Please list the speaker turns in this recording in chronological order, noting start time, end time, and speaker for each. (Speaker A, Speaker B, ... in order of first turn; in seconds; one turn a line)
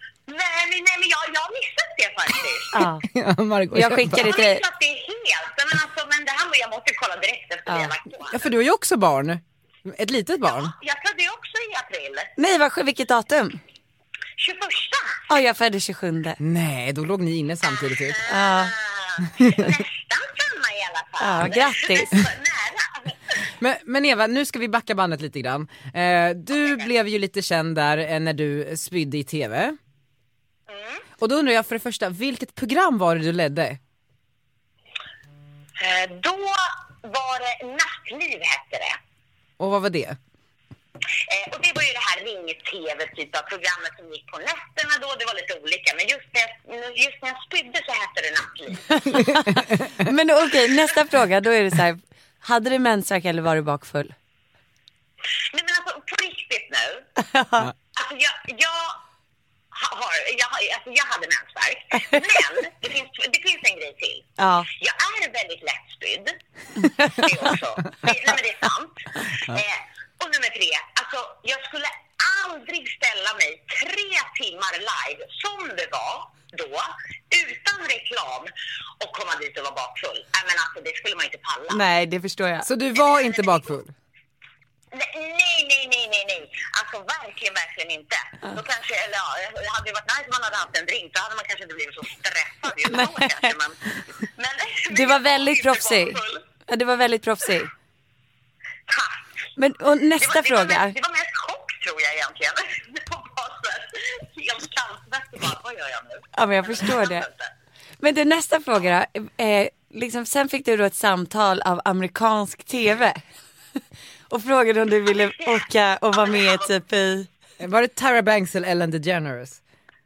Speaker A: 0.3-2.8
Speaker B: 2.7-3.0
Speaker C: 3.1-4.2
Speaker B: 3.7-4.6
Speaker A: 4.1-8.4
Speaker B: 7.7-7.9
Speaker C: 8.3-10.7
Speaker A: 10.4-12.3
Speaker B: 12.4-13.6
Speaker A: 14.4-15.2
Speaker B: 15.3-16.4
Speaker C: 16.4-18.1
Speaker A: 17.7-23.2
Speaker B: 18.3-18.7
Speaker B: 21.2-22.1
Speaker C: 23.6-29.7
Speaker A: 26.6-26.8
Speaker A: 30.7-31.0
Speaker C: 31.2-33.8
Speaker A: 35.8-39.0
Speaker C: 39.6-40.1
Speaker A: 41.3-49.0
Speaker B: 48.9-54.1
Speaker A: 55.5-57.0
Speaker B: 57.2-57.7
Speaker A: 57.9-59.0
Speaker A: 59.7-66.4
Speaker B: 61.9-62.4
Speaker B: 64.4-64.7
Speaker B: 66.8-67.2
Speaker A: 67.0-81.8
Speaker B: 81.7-82.7
Speaker C: 82.7-83.8
Speaker A: 82.9-83.8
Speaker A: 84.9-96.4
Speaker B: 92.9-93.5
Speaker B: 94.9-97.7
Speaker A: 98.9-99.3
Speaker B: 99.6-101.0
Speaker A: 100.2-107.5
Speaker B: 106.3-107.3
Speaker B: 108.0-113.2
Speaker B: 114.3-117.3
Speaker A: 115.1-116.7
Speaker C: 117.6-119.5